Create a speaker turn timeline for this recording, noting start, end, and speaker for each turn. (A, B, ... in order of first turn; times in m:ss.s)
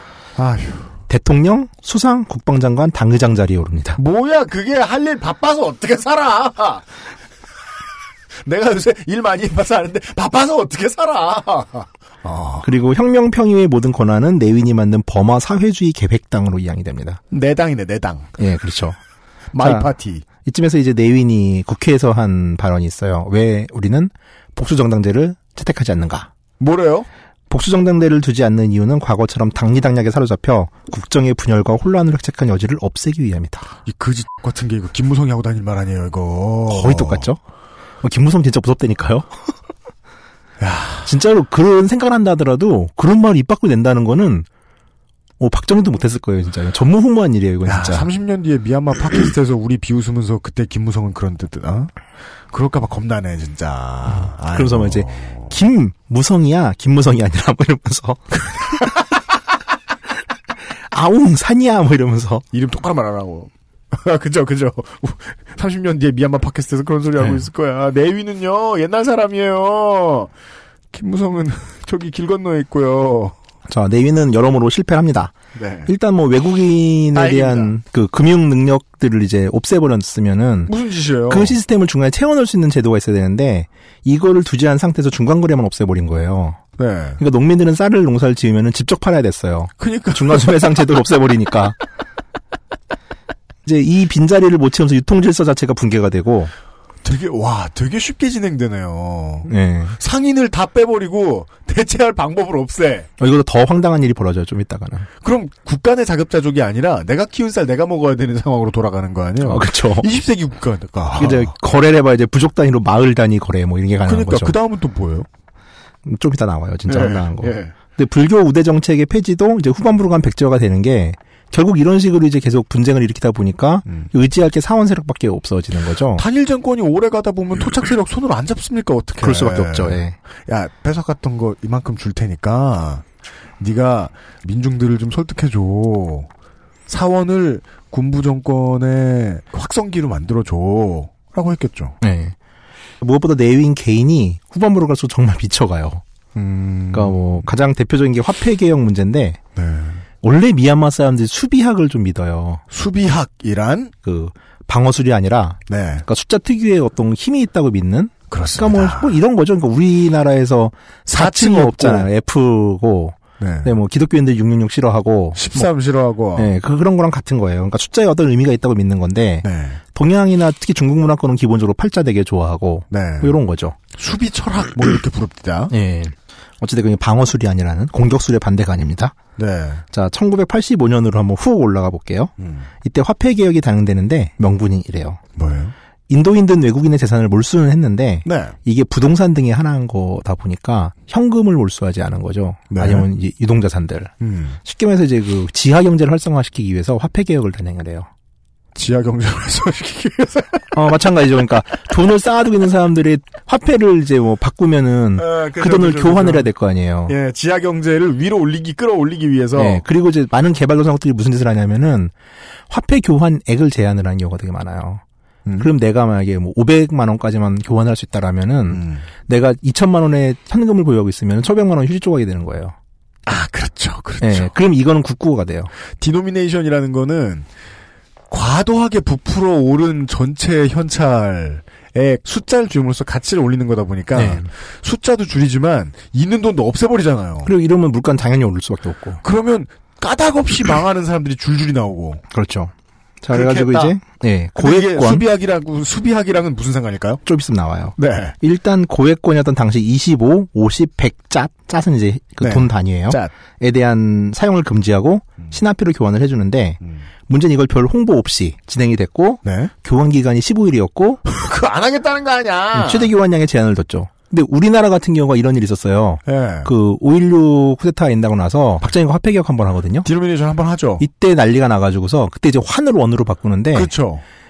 0:00.4-0:01.0 A
0:01.1-0:04.0 B
0:04.0-0:06.8 A
0:08.4-0:12.6 A
0:12.6-0:17.2 B
0:17.3-0:18.4 A
0:18.4-0:19.0 B
0:19.5-0:20.2 A
0:19.6-0:19.9 B
0:20.4-0:26.3 B
0:26.6-0:27.1 A
0:27.5-0:33.7 B
0:33.8-0:37.3 A
0:36.7-0:37.4 B
0:38.0-0:39.3 B
0:40.6-0:41.1 A
0:41.0-0:44.4 B
0:45.4-0:48.1 B
0:47.6-0:51.9 A
0:52.5-0:55.5 A
0:54.5-0:58.4 B
1:00.9-1:02.4 B
1:02.5-1:10.3 A
1:10.9-1:13.4 A
1:13.7-1:15.3 B
1:15.5-1:15.9 A
1:15.8-1:20.7 B
1:17.1-1:17.7 A
1:20.7-1:21.6 A
1:21.3-1:26.6 B
1:26.8-1:27.2 A
1:27.2-1:31.8 B
1:29.8-1:31.0 A
1:33.6-1:36.5 B
1:37.0-1:43.1 A
1:39.5-1:40.0 B
1:43.2-1:45.1 B
1:45.2-1:51.5 A
1:49.4-1:50.1 B
1:51.2-1:54.6 B
1:54.0-1:55.3 A
1:56.0-2:06.2 B
1:56.9-1:57.7 A
2:06.1-2:13.0 A
2:09.2-2:10.2 B
2:13.6-2:16.3 A
2:16.9-2:22.0 A
2:22.0-2:22.3 B
2:23.0-2:26.0 B
2:26.3-2:27.4 A
2:26.9-2:29.4 B
2:29.6-2:30.0 A
2:30.2-2:32.6 B
2:32.7-2:33.9 A
2:34.0-2:45.7 B
2:35.7-2:36.0 A
2:38.3-2:39.2 A
2:41.0-2:42.1 A
2:43.4-2:43.7 A
2:45.3-2:46.5 A
2:46.4-2:53.8 B
2:49.4-2:49.8 A
2:52.9-2:53.4 A
2:53.9-2:55.7 A
2:55.7-2:59.2 B
2:59.4-2:59.8 A
2:59.9-3:02.3 B
3:02.4-3:02.7 A
3:02.8-3:05.2 B
3:05.4-3:05.7 A
3:06.1-3:14.1 B
3:08.2-3:08.6 A
3:12.7-3:13.1 A
3:14.2-3:14.6 A
3:14.6-3:18.1 B
3:18.7-3:20.8 A
3:20.7-3:27.1 B
3:25.2-3:26.5 A
3:27.1-3:29.8 A
3:29.6-3:32.1 B
3:32.7-3:35.0 B
3:35.6-3:42.7 B
3:38.7-3:39.0 A
3:43.2-3:44.5 A
3:44.2-3:45.7 B
3:46.0-3:47.5 A
3:48.3-3:57.5 A
3:54.1-3:54.5 B
3:57.4-3:59.2 B
3:59.2-4:02.2 A
4:02.3-4:05.2 B
4:03.3-4:04.0 A
4:04.6-4:07.2 A
4:07.2-4:21.2 B
4:08.0-4:08.4 A
4:12.4-4:13.3 A
4:19.4-4:19.7 A
4:21.2-4:23.1 A
4:22.7-4:30.1 B
4:26.2-4:26.7 A
4:30.0-4:31.0 A
4:31.0-4:33.9 B
4:33.7-4:34.2 A